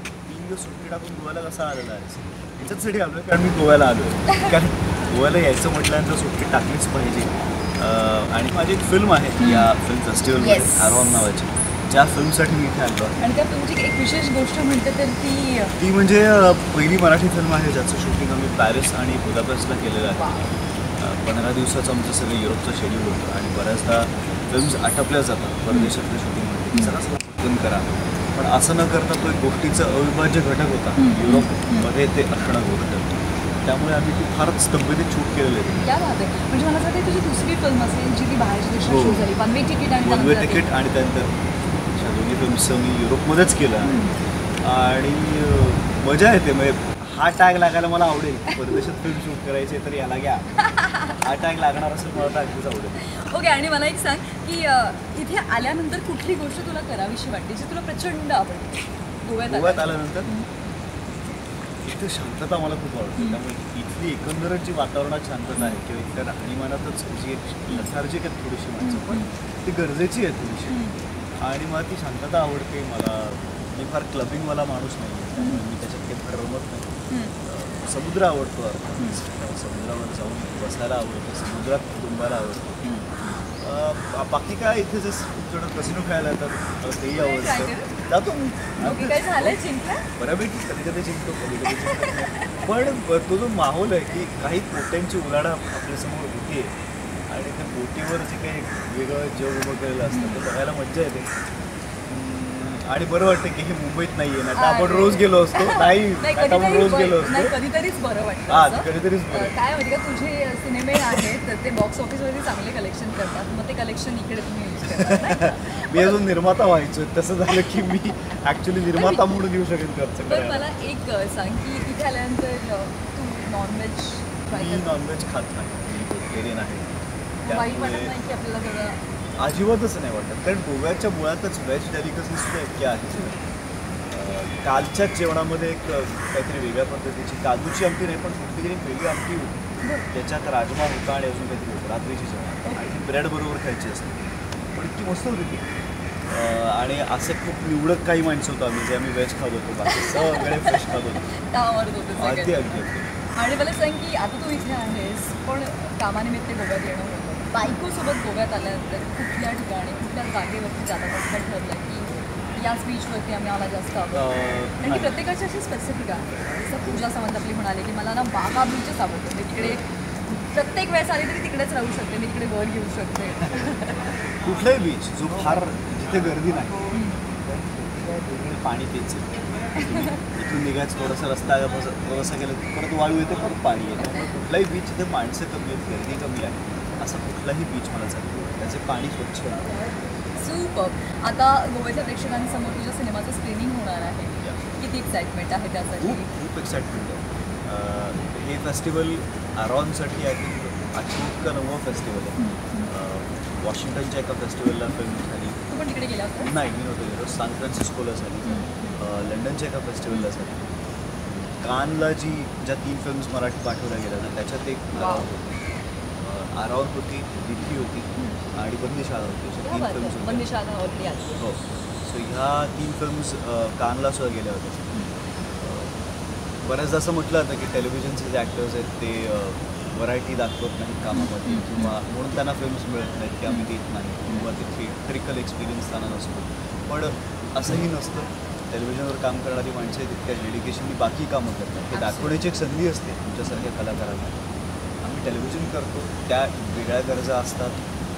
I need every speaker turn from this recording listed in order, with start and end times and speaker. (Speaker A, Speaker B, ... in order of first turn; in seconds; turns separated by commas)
Speaker A: 0.3-13.2, Speaker B: 9.4-9.7, Speaker B: 10.4-10.9, Speaker B: 13.2-15.8, Speaker A: 15.8-20.3, Speaker B: 20.1-20.6, Speaker A: 21.0-33.1, Speaker B: 31.0-31.9, Speaker A: 33.6-35.9, Speaker B: 35.8-40.7, Speaker A: 38.8-39.3, Speaker A: 40.0-41.4, Speaker A: 41.9-44.0, Speaker B: 43.8-44.2, Speaker A: 44.6-50.5, Speaker B: 50.6-51.2, Speaker A: 51.1-53.0, Speaker B: 53.0-60.5, Speaker A: 59.5-60.3, Speaker A: 61.8-70.8, Speaker B: 68.8-69.3, Speaker B: 70.7-71.0, Speaker A: 71.4-76.9, Speaker B: 75.4-75.7, Speaker B: 77.1-77.3, Speaker A: 77.5-82.8, Speaker B: 82.8-83.5, Speaker A: 83.6-89.6, Speaker B: 87.0-87.9, Speaker B: 88.8-90.1, Speaker A: 90.2-96.7, Speaker B: 91.7-92.7, Speaker A: 97.3-101.3, Speaker B: 100.1-100.4, Speaker A: 102.1-107.5, Speaker B: 104.5-116.3, Speaker A: 108.5-109.5, Speaker A: 115.0-120.7, Speaker B: 117.5-117.9, Speaker B: 119.0-119.3, Speaker B: 120.3-125.0, Speaker A: 124.5-126.9, Speaker B: 127.4-129.0, Speaker A: 127.5-128.1, Speaker A: 129.4-133.4, Speaker A: 134.1-139.6, Speaker B: 139.8-140.1, Speaker A: 140.1-144.2, Speaker B: 142.7-142.9, Speaker A: 144.7-145.7, Speaker A: 146.3-151.2, Speaker B: 149.9-152.8, Speaker A: 152.2-153.1, Speaker B: 153.3-174.1, Speaker A: 164.1-165.2, Speaker A: 174.4-176.8, Speaker B: 176.9-177.2, Speaker A: 177.5-189.7, Speaker B: 179.8-180.2, Speaker B: 190.4-196.3, Speaker A: 196.0-205.6, Speaker B: 202.4-202.9, Speaker B: 205.7-206.6, Speaker A: 206.4-210.6, Speaker B: 208.4-209.0, Speaker A: 211.6-215.6, Speaker B: 214.9-215.3, Speaker A: 216.2-220.5, Speaker B: 218.2-218.4, Speaker B: 219.6-221.4, Speaker A: 221.4-224.9, Speaker B: 224.9-225.2, Speaker A: 225.6-226.0, Speaker A: 226.6-244.4, Speaker B: 231.1-232.0, Speaker B: 234.3-234.5, Speaker B: 241.9-242.4, Speaker A: 245.0-247.8